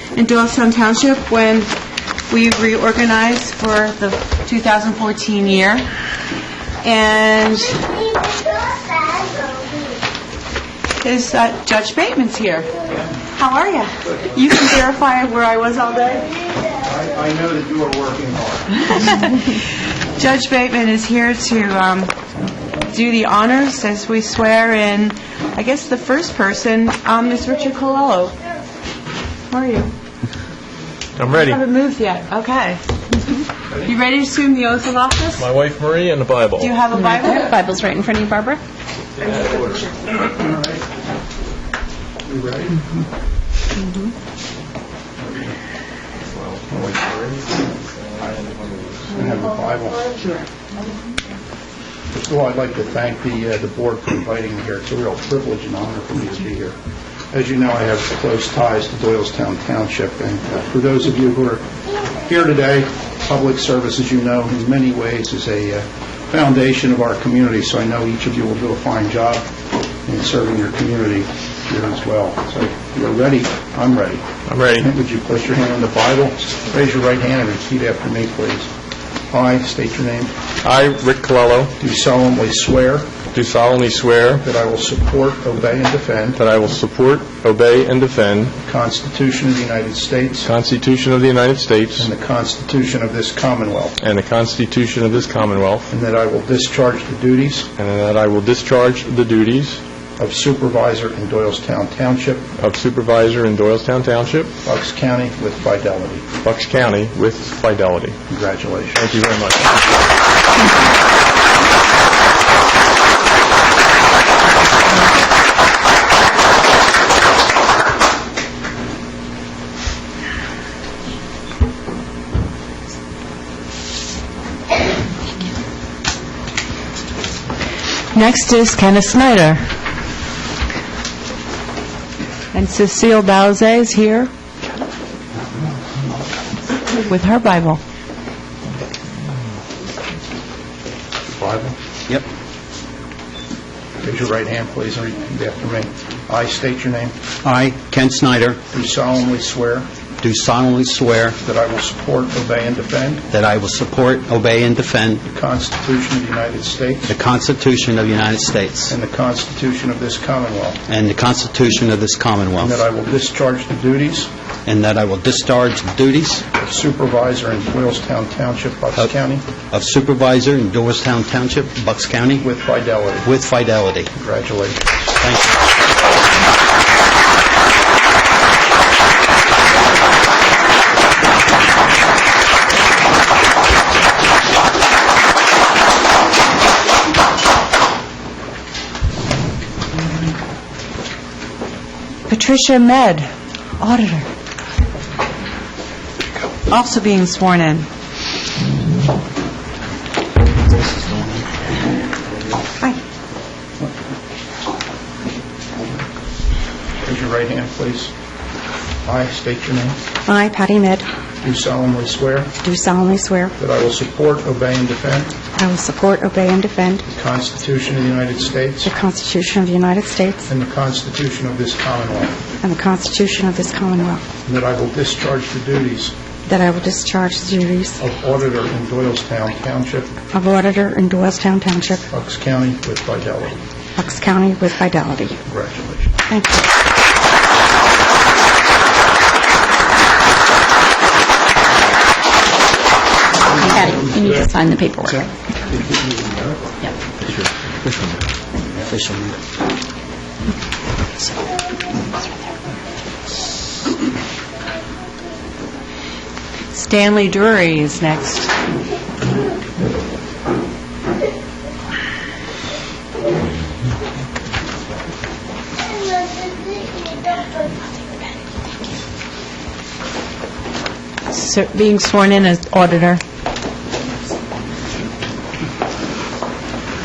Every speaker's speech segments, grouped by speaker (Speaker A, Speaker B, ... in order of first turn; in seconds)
Speaker A: 0.1-1.7, 2.3-5.9, 6.8-8.0, 11.0-12.7, 13.3-16.3, 18.8-19.6, 20.2-22.1, 22.9-28.4, 29.5-29.9, 31.4-32.8, 33.8-35.5, 36.6-37.6, 128.1-129.7, 132.5-134.3, 136.9-137.8, 192.3-194.3, 196.7-197.9, 256.7-258.5, 271.3-273.2
Speaker B: 16.8-18.7, 40.2-40.8, 42.2-42.8, 45.2-45.6, 46.7-47.5, 49.1-50.1, 52.1-56.8, 57.3-61.6, 62.2-69.5, 70.0-78.7, 79.3-80.3, 81.8-83.2, 84.4-86.4, 88.7-90.5, 92.0-94.0, 95.9-97.7, 100.2-102.5, 104.6-106.3, 108.3-109.1, 141.3-141.8, 144.0-147.2, 148.7-149.9, 151.4-153.3, 155.3-157.1, 158.9-160.8, 162.6-164.3, 166.6-169.5, 172.4-173.3, 174.1-174.8, 207.0-208.1, 209.1-210.0, 211.4-212.6, 213.6-215.4, 217.1-218.9, 220.5-222.4, 224.4-226.2, 228.0-230.2, 232.1-233.6, 235.5-236.2, 243.8-244.5, 245.0-246.8
Speaker C: 31.2-31.6, 35.4-36.8, 39.2-39.8, 48.0-49.2, 74.5-74.9, 80.6-81.7, 83.3-84.5, 86.4-88.5, 90.4-92.1, 94.0-95.9, 97.8-99.8, 102.6-104.5, 106.4-108.2, 109.0-109.8
Speaker D: 36.9-38.6, 243.6-245.2
Speaker E: 147.4-148.6, 150.2-151.4, 153.3-155.2, 157.1-158.9, 160.9-162.8, 164.7-166.4, 169.7-172.5, 173.2-174.1, 175.2-175.6, 248.8-249.4
Speaker F: 210.3-211.1, 212.6-213.6, 215.5-217.1, 218.8-220.5, 222.6-224.3, 226.5-228.0, 230.3-232.1, 234.0-235.4, 236.3-236.7